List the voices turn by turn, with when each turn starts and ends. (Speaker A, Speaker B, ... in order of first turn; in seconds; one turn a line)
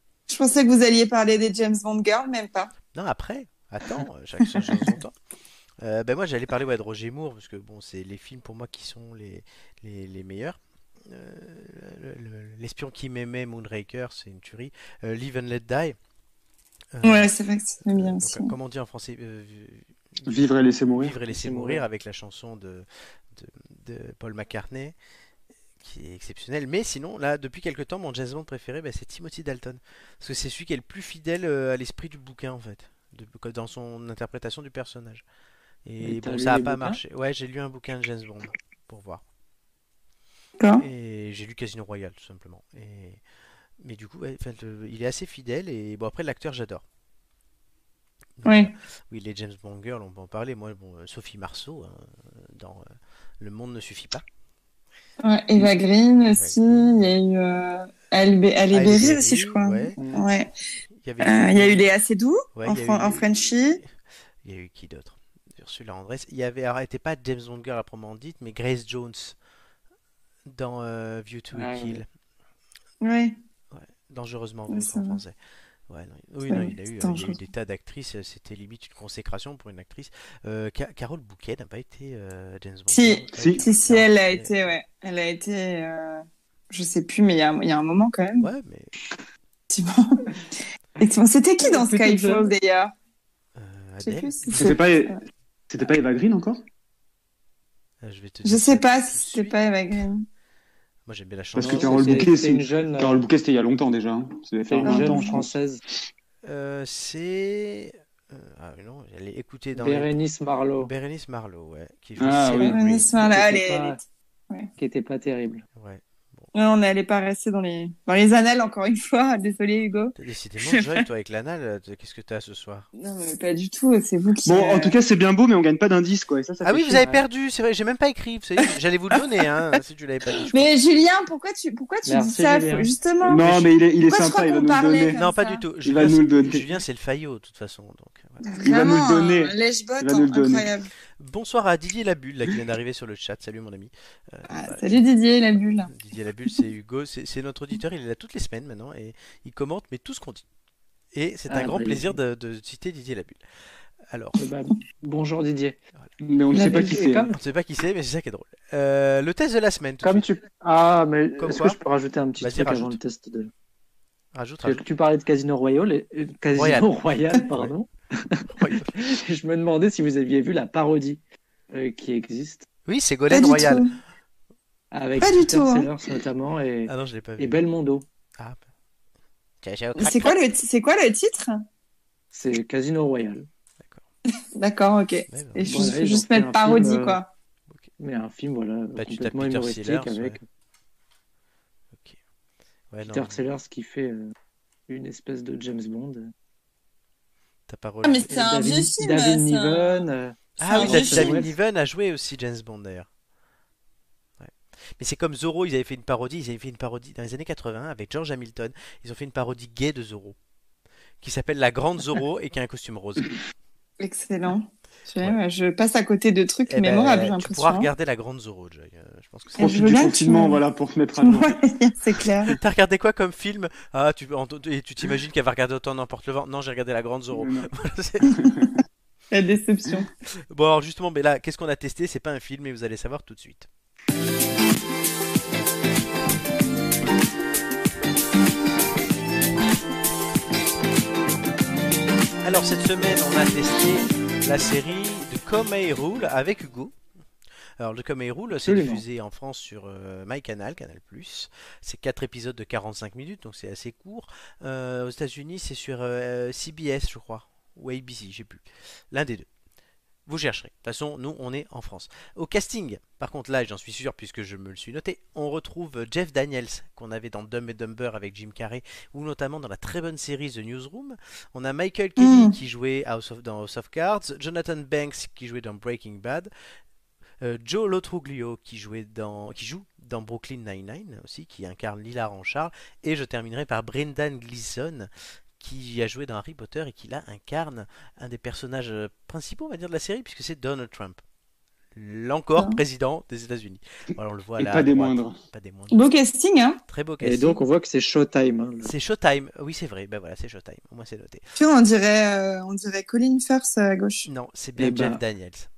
Speaker A: 0.3-2.7
Speaker B: 2.9-5.1
Speaker B: 5.8-16.0
Speaker B: 16.9-17.3
Speaker A: 17.0-18.5
Speaker B: 17.9-25.0
Speaker C: 20.2-21.2
Speaker D: 21.3-21.9
Speaker B: 25.8-35.2
Speaker B: 35.9-39.2
Speaker D: 36.0-37.0
Speaker A: 40.6-40.9
Speaker B: 40.8-43.2
Speaker B: 43.8-46.8
Speaker B: 48.4-54.2
Speaker A: 48.5-48.7
Speaker A: 55.2-60.5
Speaker B: 56.3-57.1
Speaker B: 58.7-60.0
Speaker B: 61.0-61.9
Speaker A: 61.2-63.8
Speaker B: 62.6-63.3
Speaker B: 64.4-69.4
Speaker B: 70.5-72.1
Speaker D: 71.5-72.0
Speaker A: 73.0-73.4
Speaker B: 73.7-75.4
Speaker A: 74.7-75.2
Speaker B: 75.9-84.7
Speaker A: 76.5-77.4
Speaker A: 82.9-88.5
Speaker C: 83.4-83.6
Speaker B: 88.4-88.9
Speaker A: 89.7-90.3
Speaker A: 91.0-92.9
Speaker D: 91.6-92.5
Speaker B: 93.6-94.8
Speaker A: 94.0-95.2
Speaker C: 94.5-95.2
Speaker C: 95.7-96.6
Speaker B: 98.0-99.6
Speaker A: 98.5-100.2
Speaker B: 101.1-102.3
Speaker C: 101.6-105.6
Speaker D: 101.6-103.2
Speaker D: 104.7-105.8
Speaker A: 104.8-105.4
Speaker B: 106.4-110.2
Speaker D: 109.8-110.9
Speaker B: 110.8-113.2
Speaker C: 112.2-112.8
Speaker A: 112.5-114.7
Speaker D: 113.2-114.0
Speaker D: 114.8-115.7
Speaker B: 115.8-116.5
Speaker A: 116.5-121.0
Speaker B: 120.2-122.9
Speaker A: 123.0-125.0
Speaker C: 124.5-127.2
Speaker B: 126.6-130.7
Speaker A: 130.4-133.5
Speaker D: 132.1-132.9
Speaker C: 133.2-135.2
Speaker A: 134.0-135.7
Speaker B: 135.1-138.4
Speaker C: 135.8-136.8
Speaker A: 138.4-140.9
Speaker C: 138.6-140.7
Speaker B: 141.2-145.0
Speaker A: 144.5-145.9
Speaker B: 145.9-150.4
Speaker B: 151.1-153.4
Speaker D: 151.5-152.2
Speaker B: 154.1-154.4
Speaker D: 154.4-155.8
Speaker C: 156.2-157.3
Speaker D: 156.5-157.4
Speaker B: 157.3-160.3
Speaker D: 160.0-163.5
Speaker B: 161.4-161.8
Speaker B: 162.4-163.0
Speaker B: 164.3-164.8
Speaker D: 164.6-171.2
Speaker B: 166.5-167.7
Speaker B: 168.5-169.0
Speaker D: 171.7-172.7
Speaker B: 172.9-173.9
Speaker A: 173.3-173.9
Speaker D: 174.9-178.0
Speaker A: 175.2-175.9
Speaker B: 176.9-177.6
Speaker B: 179.6-180.4
Speaker A: 180.0-181.6
Speaker D: 182.3-183.5
Speaker A: 184.5-187.3
Speaker B: 185.3-186.0
Speaker D: 185.7-187.2
Speaker D: 188.0-190.4
Speaker B: 189.0-190.4
Speaker B: 192.9-193.4
Speaker D: 193.0-194.3
Speaker D: 194.9-196.3
Speaker B: 197.7-198.3
Speaker A: 198.0-200.1
Speaker D: 198.3-201.5
Speaker B: 200.6-203.1
Speaker A: 200.6-201.5
Speaker B: 204.4-210.4
Speaker B: 211.2-213.3
Speaker A: 214.0-217.9
Speaker B: 216.7-219.9
Speaker C: 219.6-221.6
Speaker A: 219.6-220.6
Speaker A: 221.2-222.5
Speaker B: 222.5-228.5
Speaker C: 227.3-227.7
Speaker C: 228.2-228.7
Speaker A: 229.3-230.1
Speaker B: 230.5-233.7
Speaker B: 242.4-246.9
Speaker B: 247.8-259.5
Speaker D: 248.6-249.0
Speaker B: 260.2-276.5
Speaker A: 272.2-272.6
Speaker B: 277.4-291.2
Speaker B: 291.9-296.1
Speaker C: 294.6-295.4
Speaker A: 295.9-296.8
Speaker B: 296.9-297.6
Speaker D: 297.2-298.9
Speaker B: 298.8-301.4
Speaker A: 301.6-304.3
Speaker B: 304.2-305.7
Speaker D: 304.8-305.2